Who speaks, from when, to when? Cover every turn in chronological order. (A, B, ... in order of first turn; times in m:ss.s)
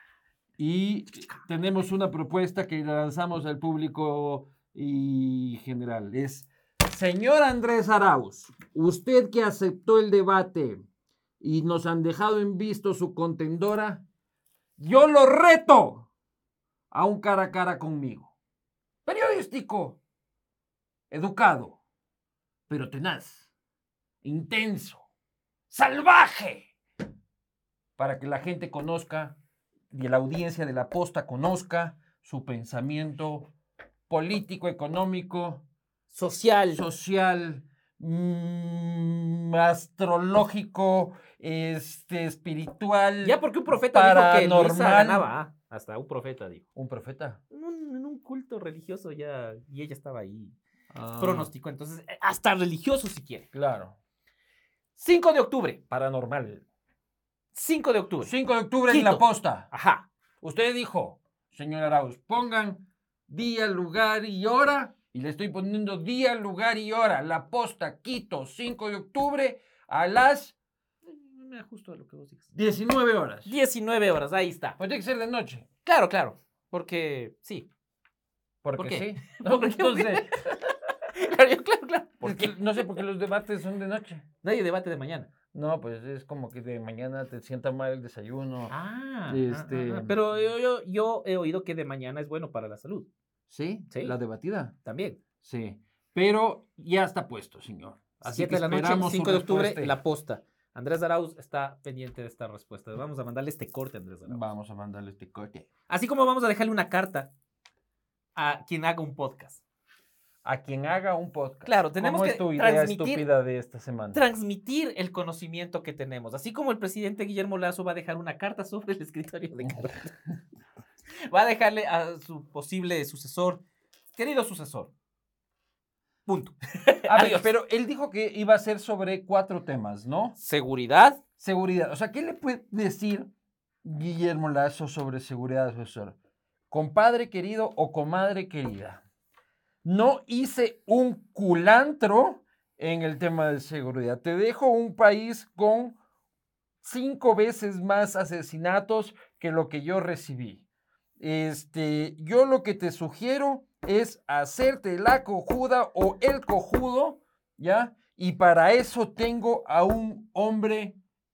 0:00.6-0:10.8 A
0:11.4-0:14.0 A
0:14.8-0:16.1 A
0:16.9-0:18.3 A
0:19.0-0:20.0 A
0:21.1-0:21.8 A
0:22.7-0:23.4 A
0:24.2-0:25.0 A
0:25.7-0:26.6 A
0:28.0-0:29.4 A
0:29.9-0:33.5 A
0:34.1-0:35.6 A
0:36.1-0:36.8 B
0:36.7-0:45.3 A
0:43.2-0:46.6 B
0:46.7-0:47.4 A
0:47.5-0:50.6 B
0:50.9-0:51.5 A
0:51.2-0:53.5 B
0:53.5-0:54.0 A
0:55.0-0:55.8 B
0:55.9-0:56.6 A
0:57.5-0:58.3 B
0:58.2-0:59.7 A
0:58.9-1:00.1 B
1:00.4-1:10.6 A
1:11.1-1:12.5 B
1:12.5-1:13.5 A
1:13.4-1:14.8 B
1:14.8-1:15.6 A
1:15.8-1:17.7 B
1:18.6-1:20.6 A
1:18.8-1:20.3 B
1:21.1-1:23.0 B
1:22.2-1:24.2 A
1:24.4-1:25.3 B
1:25.5-1:28.7 A
1:28.7-1:33.1 B
1:29.3-1:30.2 A
1:33.5-1:34.7 A
1:34.8-1:35.2 B
1:35.4-1:40.0 A
1:38.2-1:44.4 B
1:44.3-1:45.7 A
1:45.9-1:47.3 B
1:48.4-1:49.6 B
1:50.4-1:54.2 A
1:51.6-1:53.2 B
1:54.1-2:00.1 B
1:59.6-1:59.9 A
2:01.2-2:03.6 B
2:04.1-2:04.9 B
2:06.2-2:07.5 B
2:07.1-2:10.4 A
2:10.4-2:11.2 B
2:11.4-2:13.3 A
2:13.8-2:16.2 A
2:16.7-2:19.0 A
2:19.8-2:26.0 A
2:26.8-2:30.6 A
2:31.2-2:41.0 A